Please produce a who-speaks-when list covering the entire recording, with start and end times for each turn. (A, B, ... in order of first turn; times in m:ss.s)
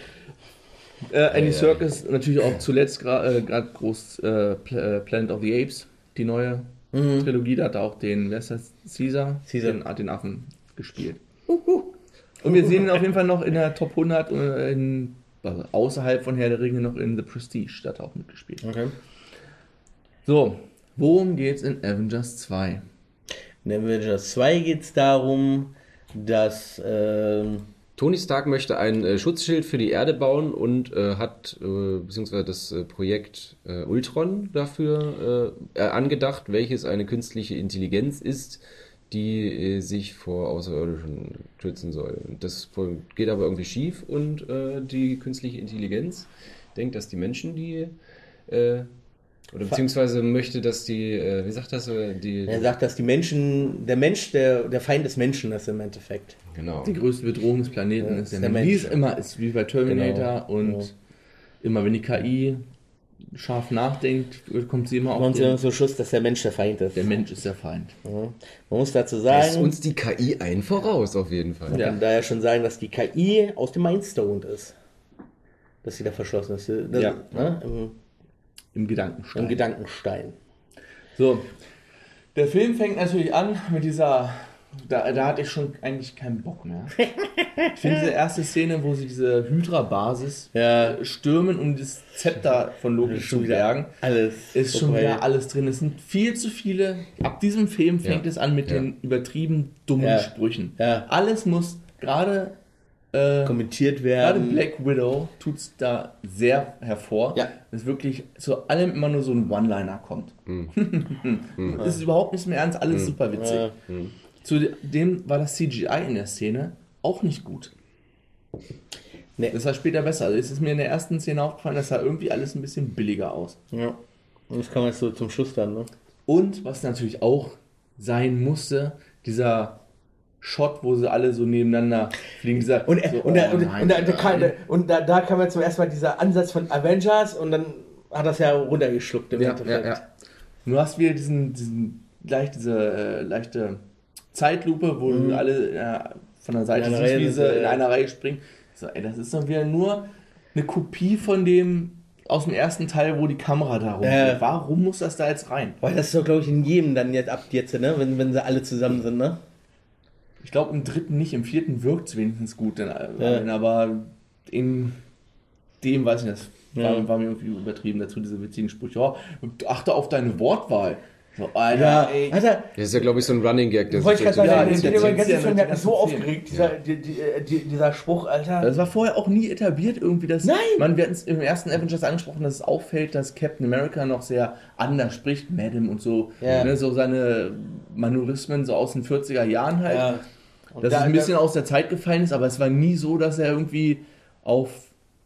0:01.1-0:11.2 A
0:01.3-0:01.8 B
0:06.9-0:07.3 C
0:09.5-0:09.8 C
0:11.5-0:11.9 C
0:12.4-0:18.6 A
0:18.6-0:18.9 C
0:20.2-0:22.8 A
0:23.6-0:27.7 C
0:28.0-0:47.9 B
0:48.4-0:48.9 B
0:49.5-0:52.7 B
0:52.5-0:56.4 C
0:56.5-0:57.0 B
0:56.8-1:00.9 A
0:58.0-0:59.0 C
0:59.9-1:00.9 C
1:01.6-1:02.6 A
1:03.3-1:05.6 A
1:05.2-1:07.1 C
1:06.9-1:08.0 A
1:08.0-1:09.7 C
1:09.3-1:11.8 B
1:11.7-1:14.7 C
1:11.7-1:12.0 A
1:15.8-1:17.9 C
1:16.9-1:17.2 A
1:18.7-1:19.6 A
1:19.3-1:20.4 C
1:21.2-1:21.5 A
1:22.3-1:27.0 A
1:27.2-1:27.8 C
1:27.7-1:33.9 A
1:30.5-1:31.0 C
1:33.0-1:35.2 C
1:34.5-1:42.5 A
1:38.0-1:38.9 B
1:40.0-1:41.1 C
1:43.1-1:43.6 A
1:43.4-1:44.6 C
1:44.2-1:53.7 A
1:50.4-1:50.7 B
1:51.6-1:51.8 B
1:51.8-1:52.0 C
1:52.9-1:53.2 B
1:53.3-1:53.7 C
1:53.9-1:54.2 B
1:54.4-1:57.7 A
1:59.5-2:03.6 A
2:03.7-2:04.0 C
2:04.5-2:05.9 C
2:06.3-2:09.8 A
2:10.4-2:14.6 A
2:12.8-2:20.0 C
2:19.4-2:20.0 A
2:20.6-2:35.8 A
2:25.1-2:25.4 C
2:26.7-2:27.8 C
2:34.0-2:34.4 C
2:35.8-2:39.4 C
2:40.4-2:45.0 A
2:43.2-2:43.4 C
2:45.8-2:52.4 A
2:46.7-2:47.1 C
2:51.7-2:52.7 C
2:52.8-2:55.3 B
2:53.9-2:58.7 C
2:54.4-2:56.3 A
2:58.6-3:10.2 A
3:00.4-3:00.9 C
3:06.4-3:06.7 C
3:06.5-3:06.7 B
3:09.9-3:10.2 C
3:10.7-3:11.3 C
3:10.8-3:14.9 A